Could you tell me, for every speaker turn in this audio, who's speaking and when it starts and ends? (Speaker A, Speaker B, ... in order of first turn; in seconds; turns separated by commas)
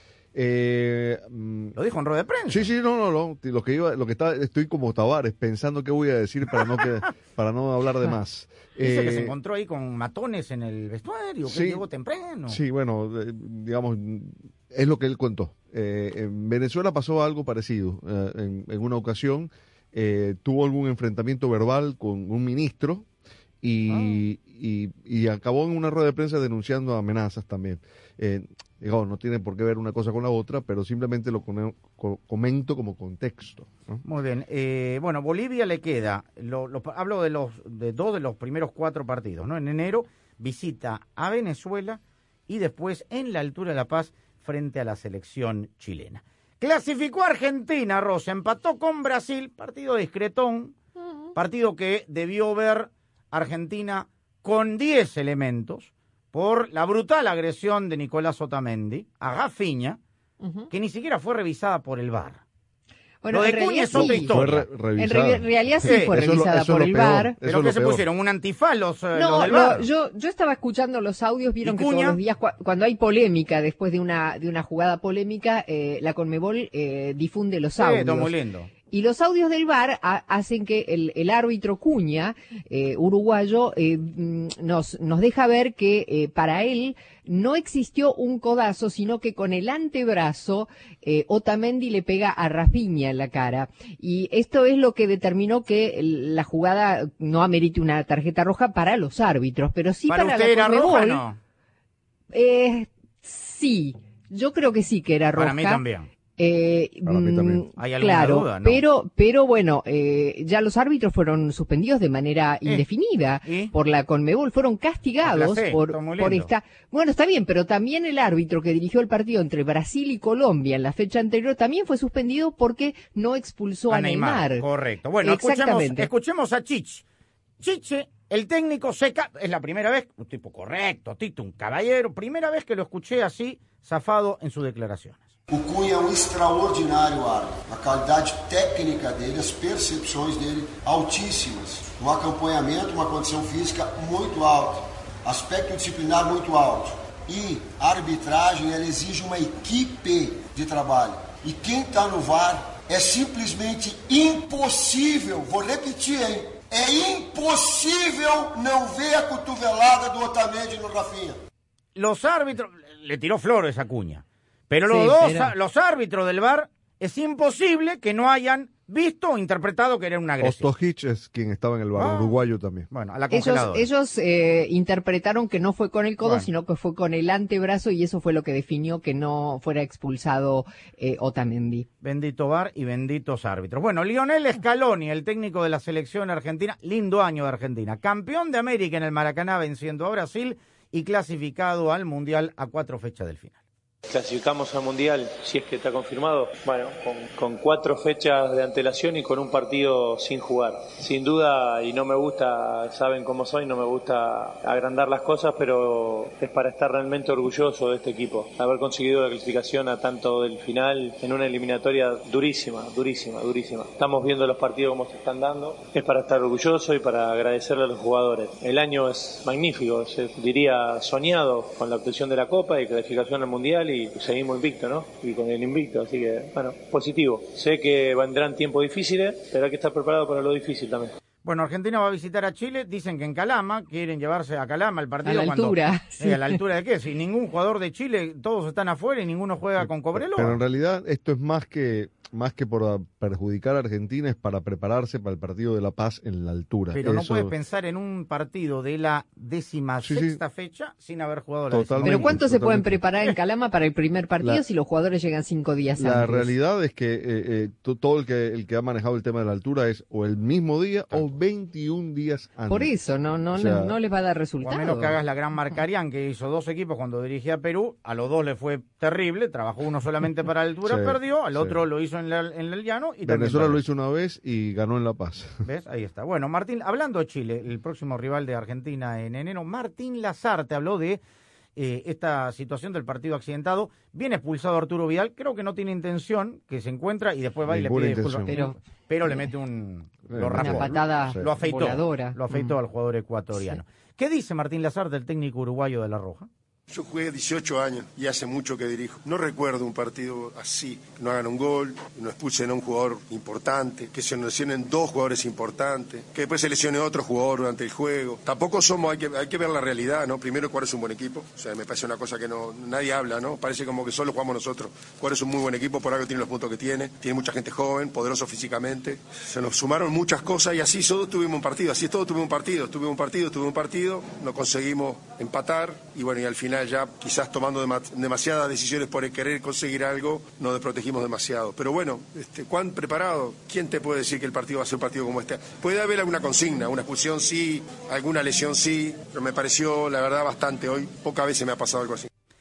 Speaker A: 0.3-1.8, Speaker B: 1.8-2.7, Speaker A: 2.5-9.3, Speaker B: 8.8-12.6, Speaker A: 11.5-11.8, Speaker A: 12.5-23.1, Speaker A: 23.6-34.0, Speaker B: 23.9-24.2, Speaker B: 34.0-50.8, Speaker B: 51.4-60.0, Speaker B: 60.7-62.4, Speaker C: 63.2-64.3, Speaker B: 63.3-64.7, Speaker A: 63.9-68.0, Speaker C: 65.0-67.3, Speaker B: 65.8-66.1, Speaker B: 67.5-69.9, Speaker C: 69.2-78.3, Speaker B: 71.6-72.2, Speaker B: 77.8-78.7, Speaker C: 78.9-101.2, Speaker B: 100.1-101.4, Speaker C: 102.3-105.8, Speaker B: 105.3-106.1, Speaker C: 106.4-124.7, Speaker A: 107.0-107.7, Speaker B: 107.8-108.8, Speaker B: 113.4-113.7, Speaker B: 115.2-116.5, Speaker B: 123.9-127.0, Speaker C: 125.2-126.1, Speaker B: 127.6-135.3, Speaker D: 135.5-161.4, Speaker B: 162.0-170.7, Speaker C: 164.9-165.5, Speaker A: 170.4-172.9, Speaker B: 172.0-173.9, Speaker C: 173.3-181.9, Speaker B: 176.2-176.5, Speaker B: 182.0-193.6, Speaker E: 194.1-231.2, Speaker B: 231.4-240.6, Speaker C: 235.2-236.6, Speaker A: 239.8-247.5, Speaker B: 246.9-252.4, Speaker A: 250.0-250.4, Speaker A: 251.7-253.0, Speaker C: 252.0-256.5, Speaker A: 256.0-262.9, Speaker B: 261.1-261.4, Speaker C: 262.7-265.2, Speaker A: 263.5-264.0, Speaker B: 264.6-273.8, Speaker A: 270.9-271.8, Speaker A: 273.2-275.6, Speaker B: 275.6-281.2, Speaker B: 281.8-296.5, Speaker A: 287.7-288.8, Speaker C: 288.5-288.8, Speaker A: 290.3-291.5, Speaker C: 290.6-292.7, Speaker F: 296.9-342.3